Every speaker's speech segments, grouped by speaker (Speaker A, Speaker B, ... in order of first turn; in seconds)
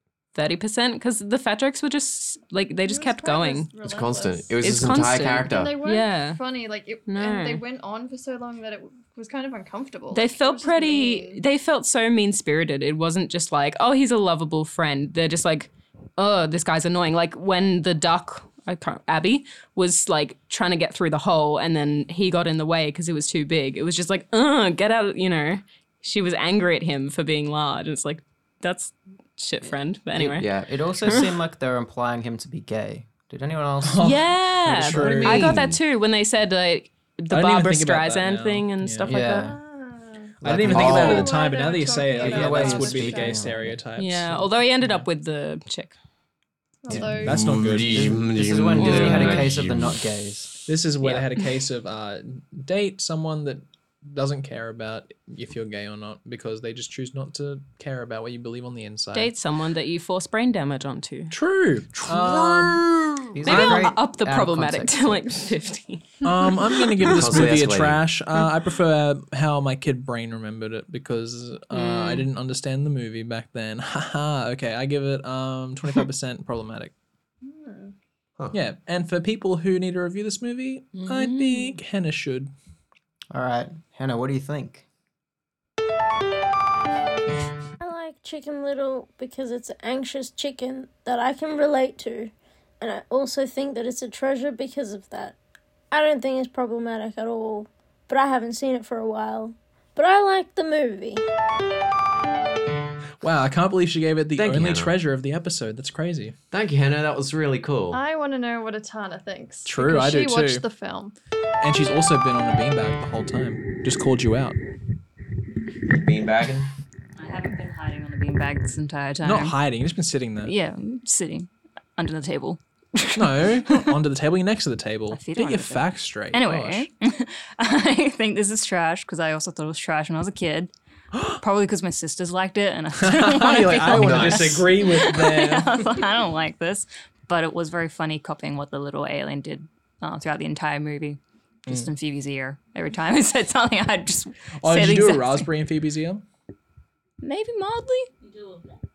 Speaker A: 0.3-3.7, 4.6-6.4, 7.1-7.6, 10.1-31.2, 34.0-39.5, 44.0-46.0, 48.8-49.5, 59.1-61.3, 63.5-66.8, 71.7-72.3, 80.9-81.8
Speaker B: 2.9-4.6, 5.4-11.4, 39.5-43.6, 46.8-47.4, 77.4-77.9, 107.9-111.1
Speaker C: 3.8-5.8, 30.4-30.7, 35.1-35.8, 40.4-41.4, 46.9-50.0, 62.0-62.9, 67.0-68.0, 104.3-104.9, 106.5-108.0, 115.9-116.7, 133.8-134.9
Speaker D: 30.1-35.5, 39.0-39.6, 40.4-41.2, 42.2-43.8, 46.9-50.6, 63.3-65.5, 83.3-84.8
Speaker E: 33.8-35.6, 37.3-39.1, 40.4-44.6, 46.9-48.1, 50.7-59.3, 61.3-63.9, 66.2-76.9, 78.5-82.5, 103.2-106.3, 109.6-110.6, 111.6-114.6, 119.2-120.5, 123.2-126.9, 133.0-136.0, 144.6-146.2
Speaker F: 87.8-95.3, 95.9-101.2
Speaker G: 117.2-119.6, 120.4-124.0, 125.1-130.7, 131.4-145.5, 147.2-148.1